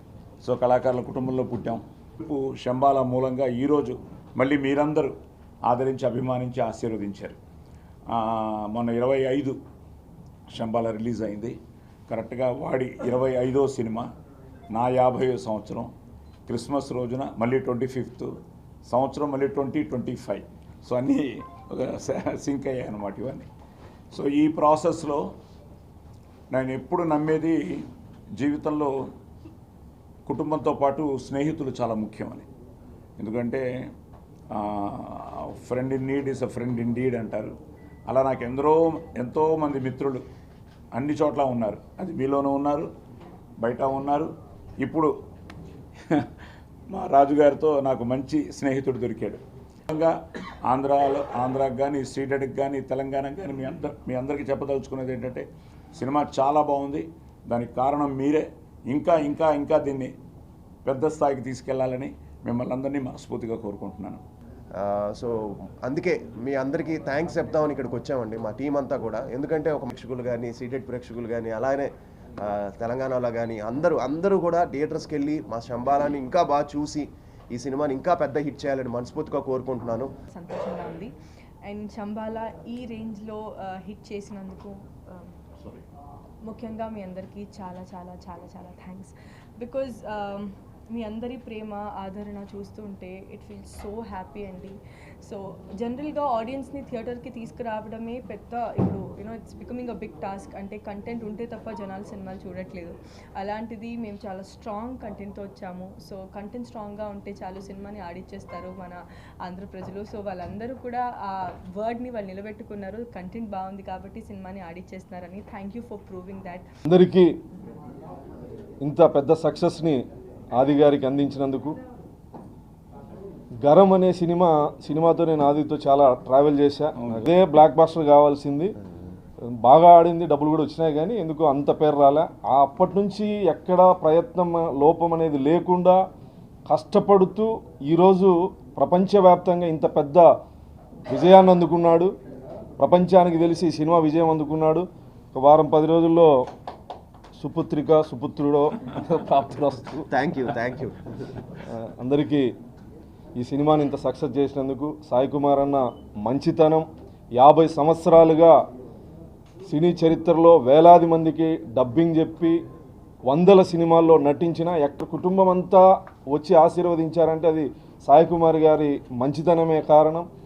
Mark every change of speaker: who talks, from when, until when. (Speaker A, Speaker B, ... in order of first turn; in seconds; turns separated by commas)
Speaker A: 0.4-7.4, Speaker A: 8.1-9.6, Speaker A: 10.5-11.6, Speaker A: 12.1-14.1, Speaker A: 14.7-15.9, Speaker A: 16.5-18.4, Speaker A: 18.9-23.5, Speaker A: 24.1-25.3, Speaker A: 26.5-27.9, Speaker A: 28.4-28.9, Speaker A: 30.3-32.5, Speaker A: 33.2-33.6, Speaker A: 34.5-37.6, Speaker A: 38.1-40.2, Speaker A: 41.0-42.9, Speaker A: 43.6-44.3, Speaker A: 44.8-45.1, Speaker A: 46.9-50.1, Speaker A: 50.7-60.1, Speaker A: 60.9-64.2, Speaker B: 64.8-80.1, Speaker C: 80.3-81.1, Speaker C: 81.7-85.4, Speaker C: 86.5-116.7, Speaker D: 116.9-117.4, Speaker D: 118.8-120.0, Speaker D: 120.6-121.8, Speaker D: 123.6-128.8, Speaker A: 127.0-127.3, Speaker D: 129.5-136.0, Speaker D: 136.7-140.3, Speaker D: 141.1-142.1, Speaker D: 142.8-146.3, Speaker D: 147.4-150.1, Speaker B: 150.1-151.0, Speaker D: 151.7-152.5, Speaker D: 153.4-158.6, Speaker D: 159.7-162.6, Speaker D: 163.3-170.3